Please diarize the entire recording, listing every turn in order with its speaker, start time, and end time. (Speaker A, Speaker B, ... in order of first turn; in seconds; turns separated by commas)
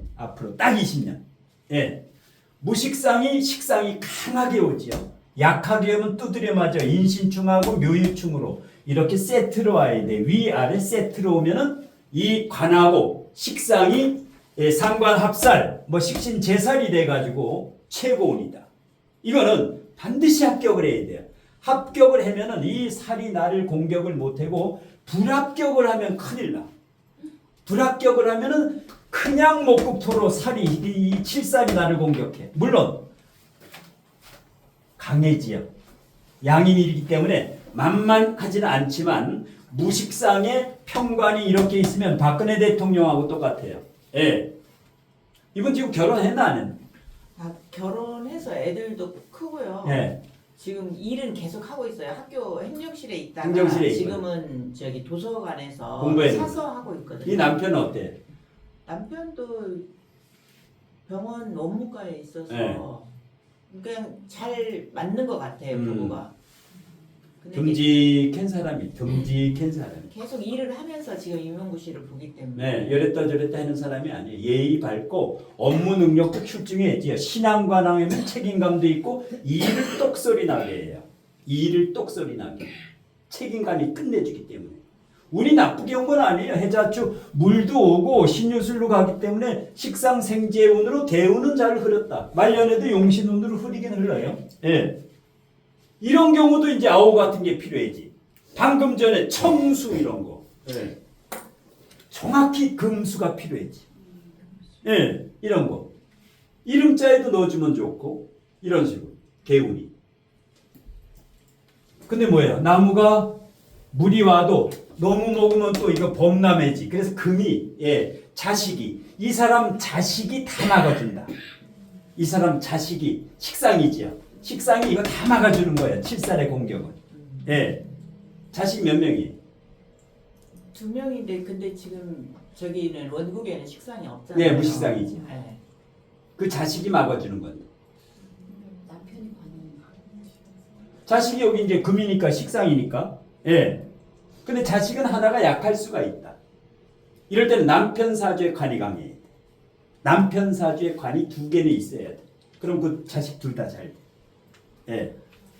Speaker A: 0.2-2.0, Speaker A: 2.6-18.7, Speaker A: 19.2-26.7, Speaker A: 27.7-33.0, Speaker A: 35.0-35.7, Speaker A: 36.4-44.5, Speaker A: 45.5-46.8, Speaker B: 47.4-57.6, Speaker A: 49.8-50.2, Speaker A: 53.4-54.2, Speaker A: 56.0-56.6, Speaker A: 57.2-58.2, Speaker B: 58.9-59.9, Speaker B: 61.1-63.1, Speaker A: 62.5-62.8, Speaker B: 63.7-66.3, Speaker A: 65.7-66.2, Speaker B: 67.4-68.0, Speaker A: 67.5-70.1, Speaker B: 70.1-73.0, Speaker A: 72.5-82.7, Speaker A: 83.3-84.8, Speaker A: 85.3-95.0, Speaker A: 96.0-101.0, Speaker A: 102.1-103.8, Speaker A: 104.8-105.9, Speaker A: 106.7-109.9, Speaker A: 112.1-113.3, Speaker A: 113.9-121.3, Speaker A: 122.2-127.8, Speaker B: 127.1-127.4, Speaker A: 128.5-129.4, Speaker B: 130.7-135.6, Speaker A: 134.3-135.3, Speaker A: 136.4-137.7, Speaker C: 138.4-140.5, Speaker A: 141.1-143.8, Speaker A: 144.4-146.4, Speaker A: 147.3-149.2, Speaker A: 150.0-154.0, Speaker A: 154.9-155.1